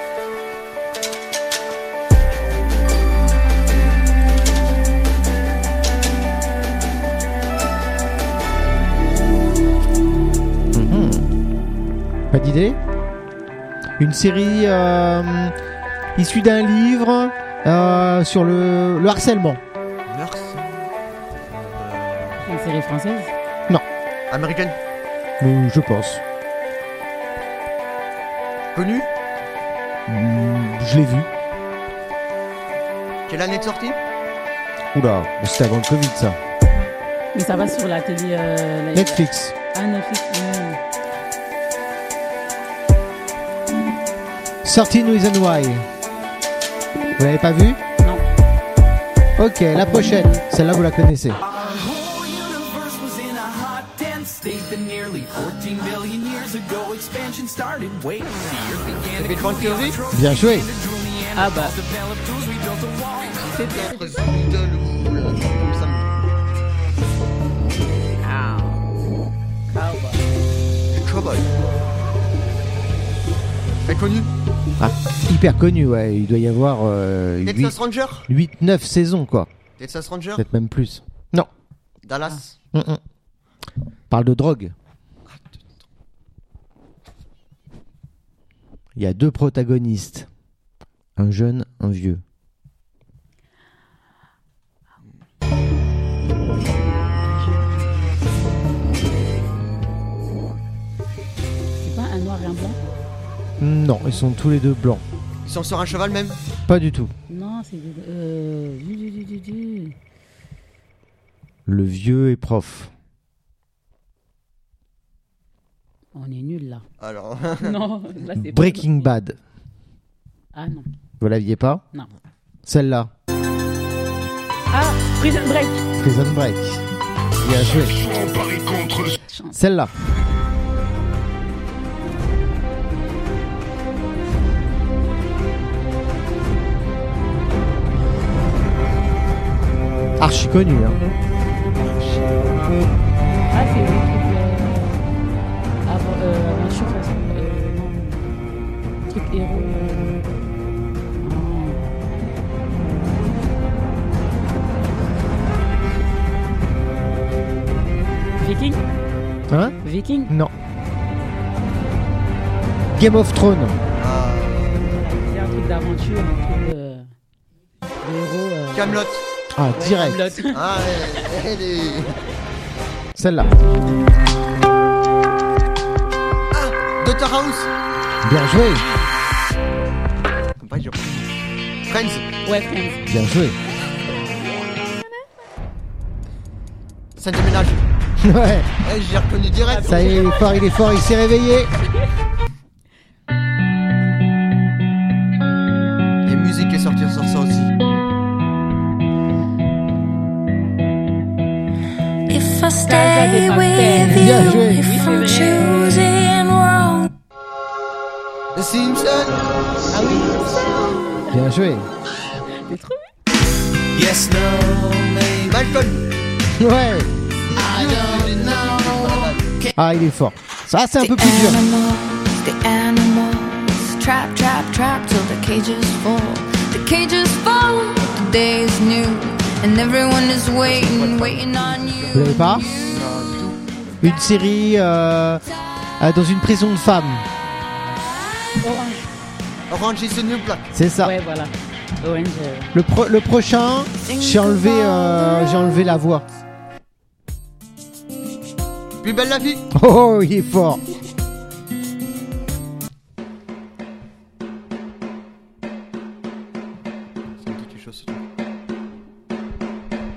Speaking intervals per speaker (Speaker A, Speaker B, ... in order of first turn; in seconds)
Speaker A: 10.7-11.3, 12.3-12.8, 14.0-15.6, 16.1-19.6, 25.4-26.2, 30.1-31.3, 34.9-36.4, 38.9-39.5, 44.6-45.9, 47.2-47.8, 49.4-51.4, 60.1-60.7, 74.8-77.8, 78.3-79.5, 80.4-81.5, 82.7-83.0, 84.1-84.7, 89.0-90.3, 91.2-92.2, 103.6-105.0, 106.7-107.1, 111.7-112.9, 118.3-119.4, 121.2-121.8, 122.7-123.1, 126.0-126.8, 127.4-128.9, 129.5-129.9, 140.2-141.0, 159.5-159.8, 162.9-163.8, 169.6-170.4, 173.2-173.5, 178.2-178.8, 183.1-183.6, 188.2-188.7, 189.8-191.7, 204.1-204.9, 211.3-211.9, 216.6-217.1, 219.8-221.6, 232.1-232.7, 234.0-235.4, 236.0-237.3, 240.7-241.1, 242.7-246.2, 249.7-250.8
Speaker B: 20.1-20.9, 21.5-22.5, 24.3-24.8, 28.8-29.1, 33.3-34.0, 59.1-60.0, 63.3-66.2, 70.9-71.5, 73.9-74.3, 77.5-78.3, 79.8-80.5, 82.0-82.6, 85.3-85.7, 105.5-106.4, 117.0-117.8, 141.9-142.4, 164.0-164.9, 168.7-169.2, 170.5-172.2, 176.5-177.7, 180.6-181.3, 181.9-182.3, 187.2-187.8, 188.8-190.2, 196.2-197.7, 208.5-210.9, 215.3-216.2, 217.5-219.7, 230.8-232.1, 232.8-233.6, 239.7-240.7, 249.0-249.7, 257.4-258.2
Speaker C: 22.4-23.3, 37.3-40.8, 48.0-48.2, 61.4-61.8, 63.5-64.2, 68.2-68.9, 69.7-70.4, 97.1-98.8, 101.8-102.8, 107.3-110.0, 116.1-116.8, 117.6-119.1, 120.5-120.9, 124.7-125.8, 128.9-129.6, 143.5-145.1, 145.9-148.4, 149.1-150.3, 151.2-152.0, 158.4-158.8, 159.8-160.3, 164.8-167.1, 168.0-169.0, 169.8-171.3, 182.4-183.1, 189.7-190.5, 202.8-206.0, 209.9-211.3, 212.5-213.1, 238.6-239.1, 241.0-242.7
Speaker D: 51.4-63.5, 214.0-215.4, 217.7-219.0
Speaker E: 202.3-207.1, 221.0-232.9